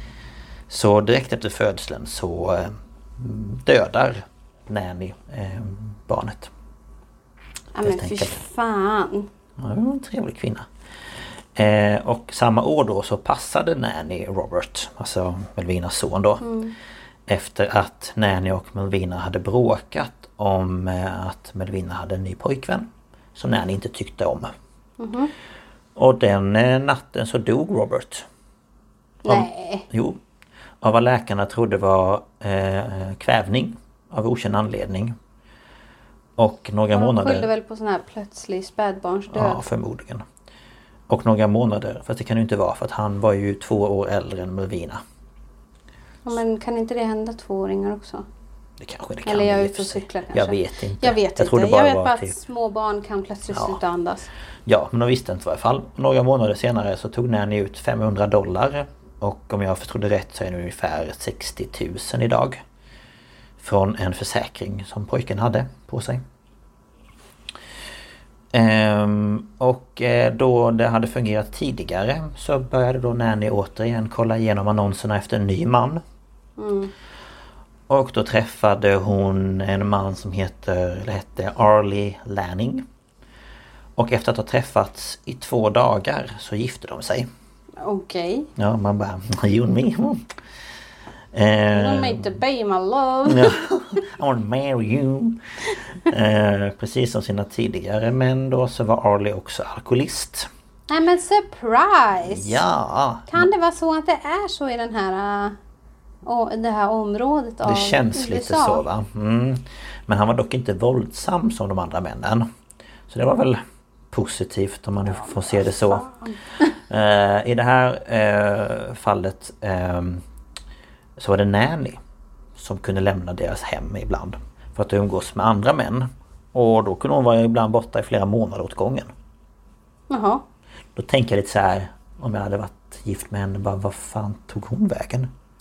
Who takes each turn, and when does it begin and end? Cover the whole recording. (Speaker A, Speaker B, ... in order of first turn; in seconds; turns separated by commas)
Speaker A: 0.7-6.5, Speaker B: 7.7-9.3, Speaker A: 7.8-8.4, Speaker A: 9.6-10.7, Speaker A: 11.6-16.5, Speaker B: 16.4-16.8, Speaker A: 17.3-24.5, Speaker B: 25.0-25.3, Speaker A: 26.0-28.3, Speaker B: 29.2-29.9, Speaker A: 29.3-30.2, Speaker A: 30.8-35.2, Speaker A: 36.4-37.5, Speaker B: 37.0-39.6, Speaker A: 39.3-40.3, Speaker A: 41.1-45.0, Speaker B: 46.3-48.3, Speaker A: 48.8-52.4, Speaker B: 49.2-54.3, Speaker A: 53.5-53.8, Speaker A: 54.7-62.6, Speaker A: 63.6-66.2, Speaker A: 68.5-76.0, Speaker B: 76.6-76.9, Speaker A: 77.9-82.9, Speaker A: 84.0-87.3, Speaker B: 87.8-88.5, Speaker A: 88.6-90.3, Speaker A: 91.3-92.3, Speaker B: 91.7-93.6, Speaker A: 93.3-95.4, Speaker A: 96.1-100.5, Speaker B: 100.9-102.6, Speaker A: 102.2-103.5, Speaker B: 103.3-105.6, Speaker B: 106.3-108.8, Speaker A: 107.7-112.5, Speaker A: 113.1-116.1, Speaker B: 115.0-116.7, Speaker A: 116.8-120.2, Speaker A: 121.2-122.0, Speaker A: 122.6-129.1, Speaker B: 130.1-130.4, Speaker A: 130.9-135.3